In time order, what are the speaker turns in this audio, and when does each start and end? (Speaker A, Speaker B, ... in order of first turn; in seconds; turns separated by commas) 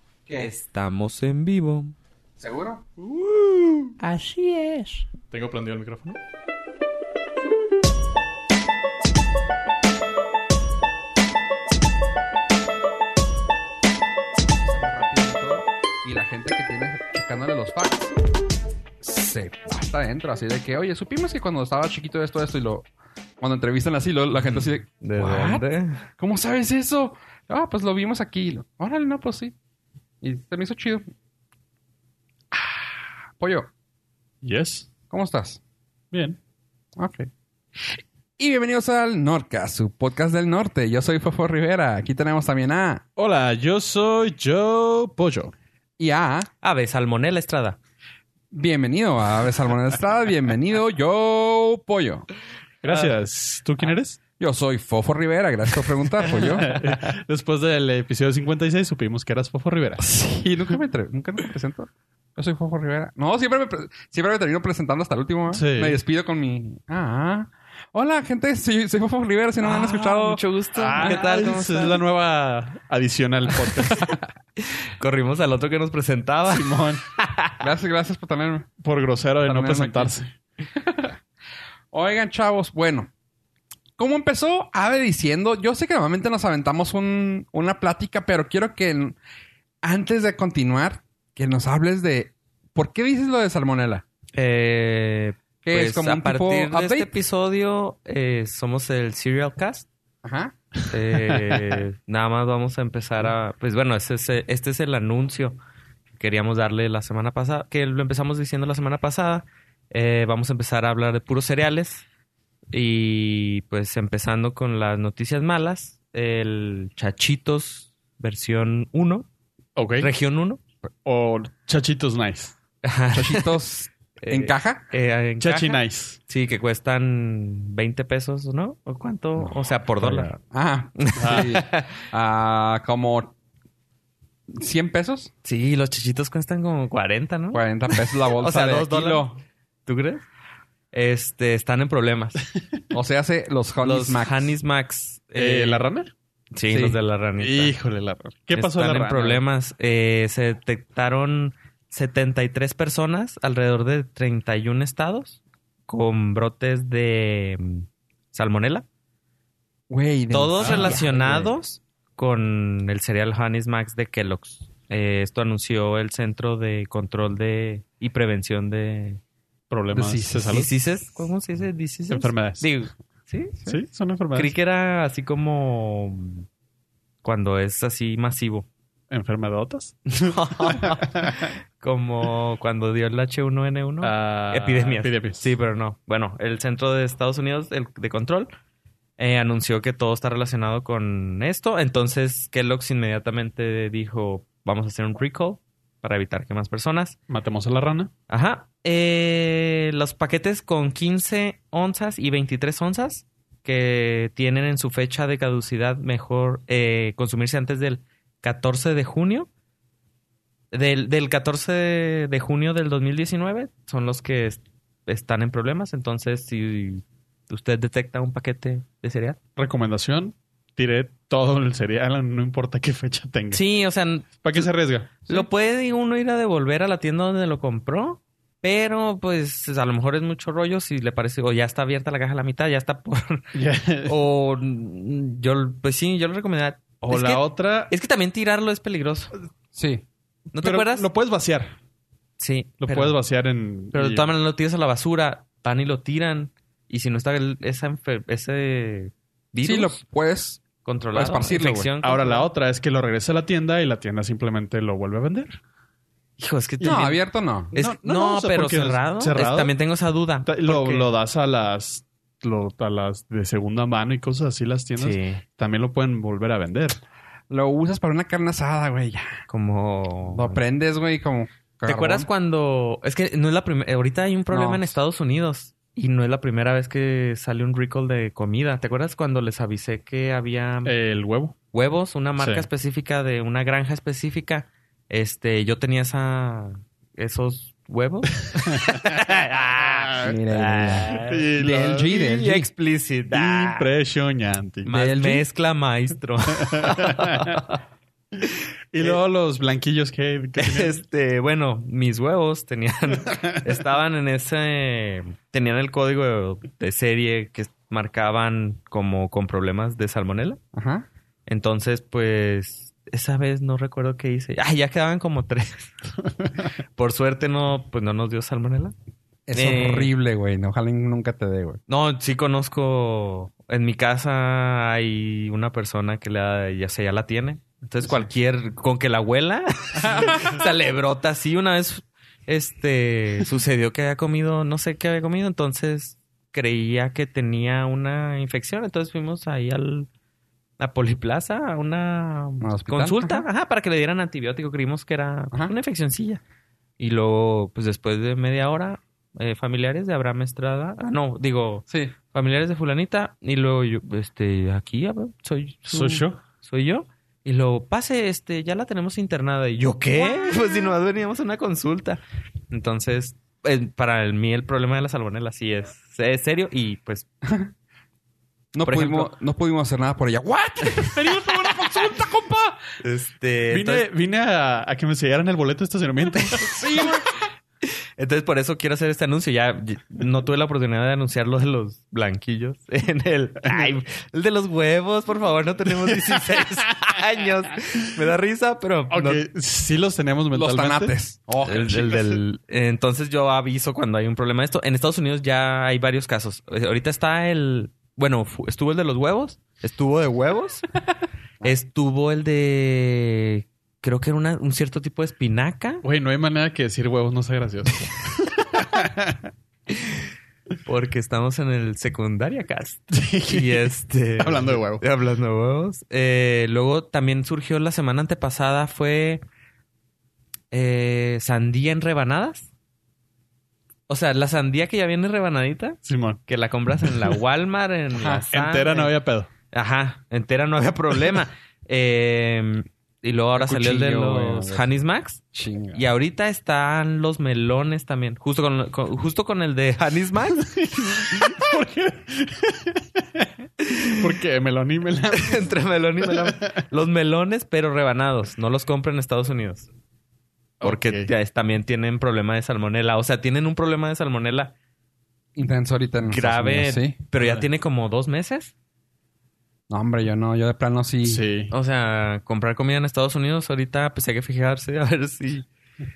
Speaker A: 0.3-1.9, Speaker B: 2.4-2.9, Speaker A: 3.1-5.0, Speaker C: 5.3-6.2, Speaker B: 14.5-18.1, Speaker B: 19.0-22.9, Speaker B: 23.4-25.6, Speaker A: 24.4-26.1, Speaker B: 26.2-29.5, Speaker B: 30.2-31.1, Speaker B: 32.5-33.7, Speaker C: 34.4-34.9, Speaker B: 35.1-35.6, Speaker C: 36.1-36.4, Speaker B: 37.0-37.3, Speaker B: 38.4-43.0, Speaker C: 43.2-45.5, Speaker B: 46.0-46.5, Speaker A: 46.6-47.8, Speaker B: 48.5-52.3, Speaker C: 52.8-54.2, Speaker B: 54.4-56.7, Speaker C: 56.3-60.0, Speaker B: 60.0-70.4, Speaker C: 65.5-66.0, Speaker A: 69.6-72.0, Speaker C: 70.7-74.1, Speaker A: 73.9-77.5, Speaker C: 76.5-77.0, Speaker B: 77.6-78.7, Speaker C: 78.8-80.3, Speaker B: 79.4-80.2, Speaker B: 80.7-81.2, Speaker B: 81.9-83.1, Speaker B: 84.0-89.2, Speaker B: 89.8-94.0, Speaker A: 94.3-99.9, Speaker B: 95.6-97.1, Speaker B: 100.2-100.5, Speaker A: 100.9-105.6, Speaker C: 101.2-101.8, Speaker A: 106.2-112.0, Speaker A: 112.7-119.2, Speaker C: 119.8-120.1, Speaker A: 120.0-120.6, Speaker C: 121.0-122.5, Speaker A: 122.8-123.5, Speaker B: 123.1-124.8, Speaker A: 124.2-130.3, Speaker C: 125.4-126.2, Speaker B: 129.4-133.3, Speaker A: 131.0-131.9, Speaker C: 131.2-131.5, Speaker B: 134.5-135.3, Speaker A: 135.4-139.3, Speaker B: 137.5-139.4, Speaker A: 139.8-140.2, Speaker A: 140.9-142.4, Speaker B: 142.9-144.6, Speaker A: 143.8-145.8, Speaker C: 145.3-146.1, Speaker A: 146.5-147.7, Speaker B: 146.7-147.0, Speaker C: 147.4-149.4, Speaker A: 148.5-158.8, Speaker B: 159.9-161.5, Speaker A: 160.3-169.2, Speaker C: 160.6-161.0, Speaker C: 169.7-170.7, Speaker B: 169.9-170.6, Speaker A: 170.4-173.7, Speaker C: 172.1-172.7, Speaker C: 173.7-174.5, Speaker A: 174.3-176.4, Speaker A: 177.2-178.7, Speaker C: 179.1-181.4, Speaker A: 180.1-188.5, Speaker C: 184.0-185.5, Speaker A: 189.2-197.2, Speaker C: 197.3-198.1, Speaker A: 198.3-209.5, Speaker A: 210.7-219.4, Speaker C: 219.6-223.6, Speaker A: 223.5-224.7, Speaker C: 224.4-225.4, Speaker A: 225.2-233.5, Speaker C: 233.5-234.2, Speaker A: 234.1-239.3, Speaker C: 237.0-237.9, Speaker B: 239.7-240.0, Speaker A: 240.5-241.1, Speaker C: 240.6-241.7, Speaker A: 242.4-243.2, Speaker C: 242.8-244.3, Speaker A: 243.9-250.0, Speaker B: 249.6-250.6, Speaker A: 250.8-252.5, Speaker B: 251.1-251.9, Speaker C: 252.0-255.6, Speaker A: 256.4-257.2, Speaker B: 256.8-257.7, Speaker C: 257.7-259.7, Speaker A: 257.7-261.1, Speaker C: 260.4-267.0, Speaker A: 265.0-265.4, Speaker B: 267.5-269.4, Speaker A: 269.5-270.6, Speaker B: 270.3-272.3, Speaker A: 271.8-280.9, Speaker B: 274.5-274.8, Speaker C: 280.8-281.5, Speaker A: 281.7-291.5, Speaker C: 282.4-282.6, Speaker C: 288.6-289.0, Speaker B: 290.2-292.7, Speaker C: 291.2-292.2, Speaker A: 292.1-293.9, Speaker C: 293.3-294.9, Speaker A: 294.8-297.8, Speaker B: 294.9-295.4, Speaker C: 296.7-297.6, Speaker A: 298.4-299.1, Speaker C: 298.9-301.0, Speaker A: 300.6-310.6, Speaker B: 310.7-311.1, Speaker A: 311.5-316.0, Speaker A: 316.9-318.9, Speaker B: 319.5-321.8, Speaker A: 319.6-320.1, Speaker A: 321.9-340.1, Speaker A: 340.8-346.4, Speaker B: 342.6-343.4, Speaker A: 347.0-367.2, Speaker B: 351.9-352.1, Speaker C: 355.9-356.4, Speaker B: 360.1-360.9, Speaker B: 367.4-367.7, Speaker B: 368.7-372.8, Speaker A: 368.8-369.3, Speaker A: 373.0-374.1, Speaker C: 373.7-376.8, Speaker B: 376.6-377.3, Speaker A: 378.2-389.4, Speaker C: 389.1-391.1, Speaker B: 390.5-392.4, Speaker A: 391.6-400.9, Speaker A: 401.6-406.0, Speaker C: 406.0-409.4, Speaker A: 409.9-410.2, Speaker A: 410.8-419.4, Speaker C: 413.1-415.0, Speaker A: 420.7-422.7, Speaker A: 424.1-429.1, Speaker C: 426.0-426.4, Speaker C: 427.0-427.3, Speaker C: 428.5-429.5, Speaker A: 429.7-441.4, Speaker B: 433.6-434.9, Speaker B: 435.5-436.0, Speaker C: 440.6-443.5, Speaker A: 443.8-444.2, Speaker C: 444.1-445.7, Speaker A: 445.3-449.9, Speaker C: 446.2-446.6, Speaker C: 450.8-451.3, Speaker A: 450.8-454.7, Speaker B: 455.6-457.1, Speaker A: 456.2-458.7, Speaker C: 457.4-457.6, Speaker B: 459.9-461.4, Speaker C: 461.2-461.7, Speaker A: 461.7-465.7